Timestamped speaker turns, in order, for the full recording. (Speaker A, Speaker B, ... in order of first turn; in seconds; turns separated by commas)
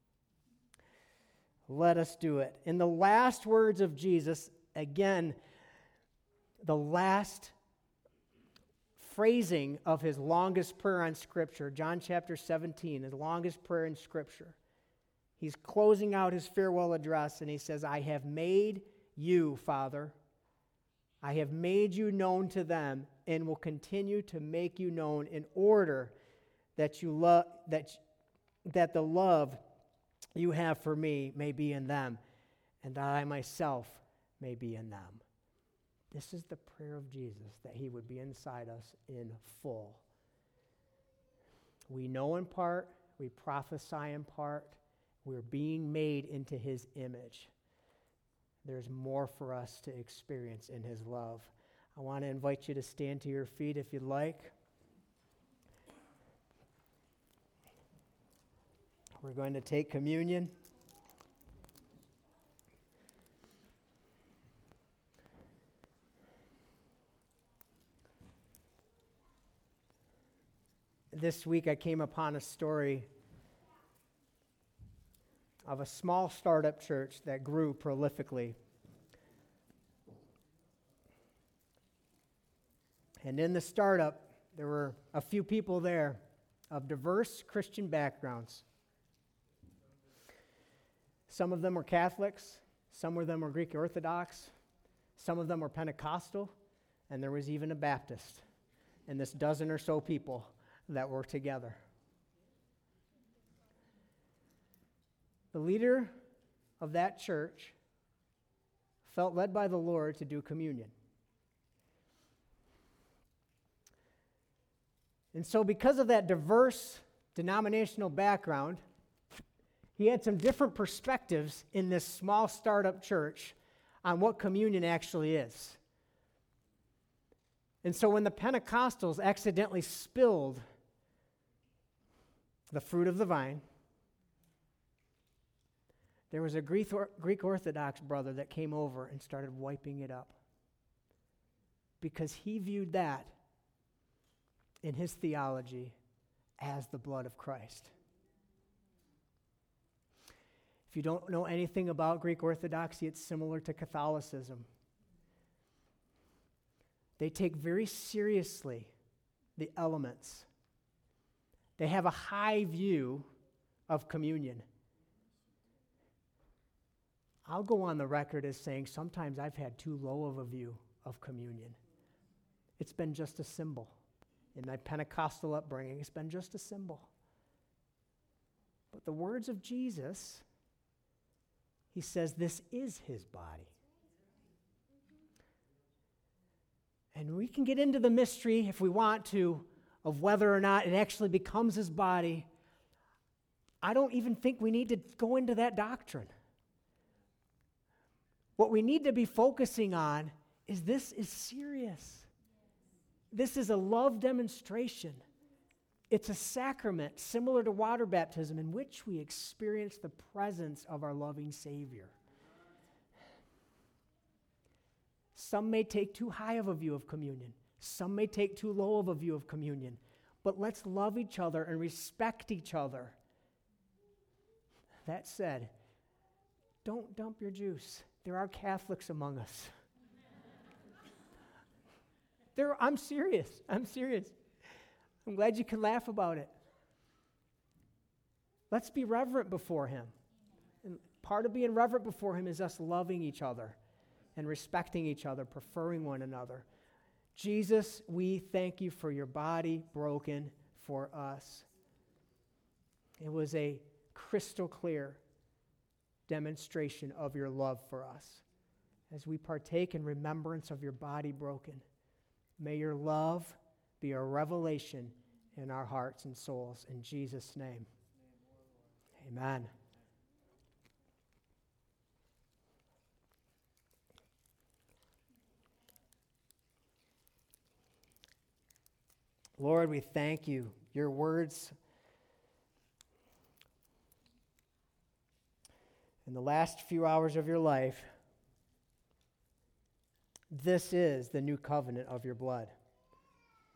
Speaker A: 1.7-5.4, Speaker A: 6.6-7.5, Speaker A: 8.9-14.6, Speaker A: 15.4-20.1, Speaker A: 21.2-26.1, Speaker A: 26.8-28.0, Speaker A: 28.6-29.6, Speaker A: 30.4-32.2, Speaker A: 32.8-35.2, Speaker A: 36.1-40.0, Speaker A: 41.9-47.5, Speaker A: 48.6-54.5, Speaker A: 59.2-60.5, Speaker A: 71.1-73.1, Speaker A: 75.6-78.5, Speaker A: 83.2-88.6, Speaker A: 91.3-94.5, Speaker A: 95.2-96.5, Speaker A: 97.1-98.4, Speaker A: 99.1-101.8, Speaker A: 105.5-106.1, Speaker A: 106.8-107.8, Speaker A: 109.0-110.9, Speaker A: 115.3-118.8, Speaker A: 120.0-125.8, Speaker A: 127.8-130.6, Speaker A: 132.7-133.6, Speaker A: 136.3-140.4, Speaker A: 142.0-143.3, Speaker A: 144.8-145.9, Speaker A: 146.6-147.9, Speaker A: 150.9-154.7, Speaker A: 157.2-158.9, Speaker A: 159.6-160.5, Speaker A: 161.8-163.3, Speaker A: 163.9-164.6, Speaker A: 167.4-171.8, Speaker A: 172.8-173.9, Speaker A: 174.5-177.1, Speaker A: 178.9-180.4, Speaker A: 181.9-183.7, Speaker A: 187.1-192.5, Speaker A: 193.8-196.3, Speaker A: 198.6-202.3, Speaker A: 203.3-205.2, Speaker A: 206.1-212.1, Speaker A: 215.3-223.2, Speaker A: 225.1-225.7, Speaker A: 226.8-229.7, Speaker A: 232.5-234.3, Speaker A: 235.2-236.5, Speaker A: 238.7-240.1, Speaker A: 240.8-243.8, Speaker A: 244.3-246.6, Speaker A: 247.3-251.7, Speaker A: 253.2-255.2, Speaker A: 256.3-258.4, Speaker A: 259.1-261.8, Speaker A: 262.6-267.9, Speaker A: 269.2-269.7, Speaker A: 279.6-281.7, Speaker A: 286.2-288.1, Speaker A: 290.5-292.7